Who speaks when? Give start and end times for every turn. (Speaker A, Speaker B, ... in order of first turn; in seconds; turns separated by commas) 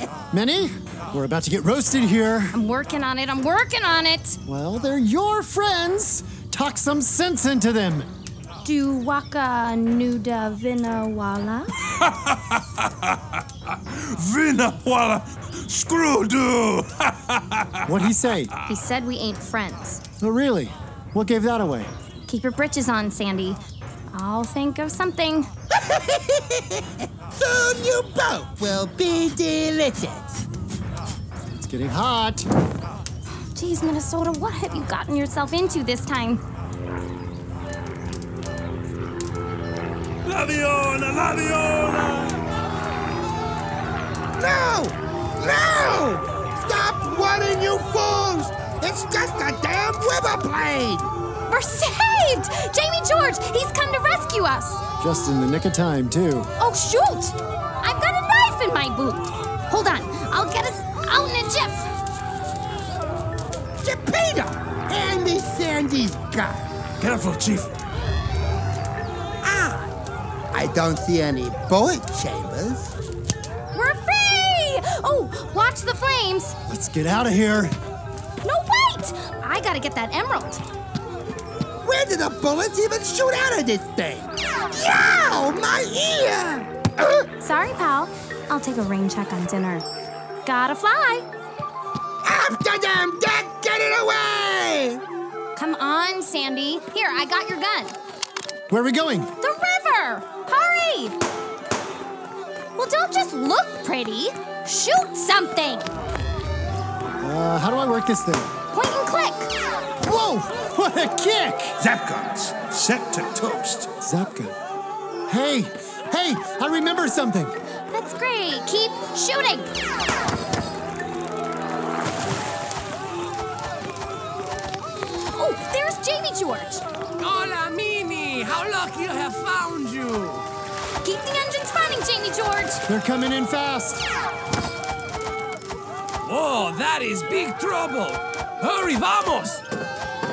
Speaker A: 0.3-2.5, Speaker B: 2.5-4.4, Speaker A: 4.5-8.1, Speaker B: 8.6-11.8, Speaker C: 12.0-13.2, Speaker C: 13.7-18.1, Speaker A: 17.9-18.5, Speaker B: 18.7-20.0, Speaker A: 20.2-21.9, Speaker B: 22.3-23.6, Speaker B: 24.1-25.5, Speaker D: 25.7-30.4, Speaker A: 31.6-32.5, Speaker B: 33.5-36.4, Speaker C: 40.2-42.4, Speaker D: 44.4-51.1, Speaker B: 51.5-54.8, Speaker A: 55.0-56.5, Speaker B: 56.6-61.9, Speaker D: 63.8-66.7, Speaker C: 67.0-67.7, Speaker D: 69.4-69.9, Speaker D: 70.5-72.9, Speaker B: 73.7-76.6, Speaker A: 76.7-77.8, Speaker B: 78.4-80.6, Speaker D: 81.8-87.2, Speaker B: 87.4-89.8, Speaker B: 90.5-91.3, Speaker D: 92.2-95.0, Speaker B: 95.5-98.0, Speaker A: 98.7-99.3, Speaker B: 99.4-101.2, Speaker B: 102.8-105.9, Speaker A: 107.2-108.5, Speaker B: 108.7-109.5, Speaker A: 110.0-111.8, Speaker D: 111.9-112.8, Speaker D: 113.3-113.9, Speaker A: 114.0-114.5, Speaker A: 115.3-117.6, Speaker B: 117.9-119.7, Speaker B: 125.3-126.8, Speaker E: 127.2-130.4, Speaker B: 131.0-132.8, Speaker A: 132.9-134.0, Speaker E: 136.2-139.6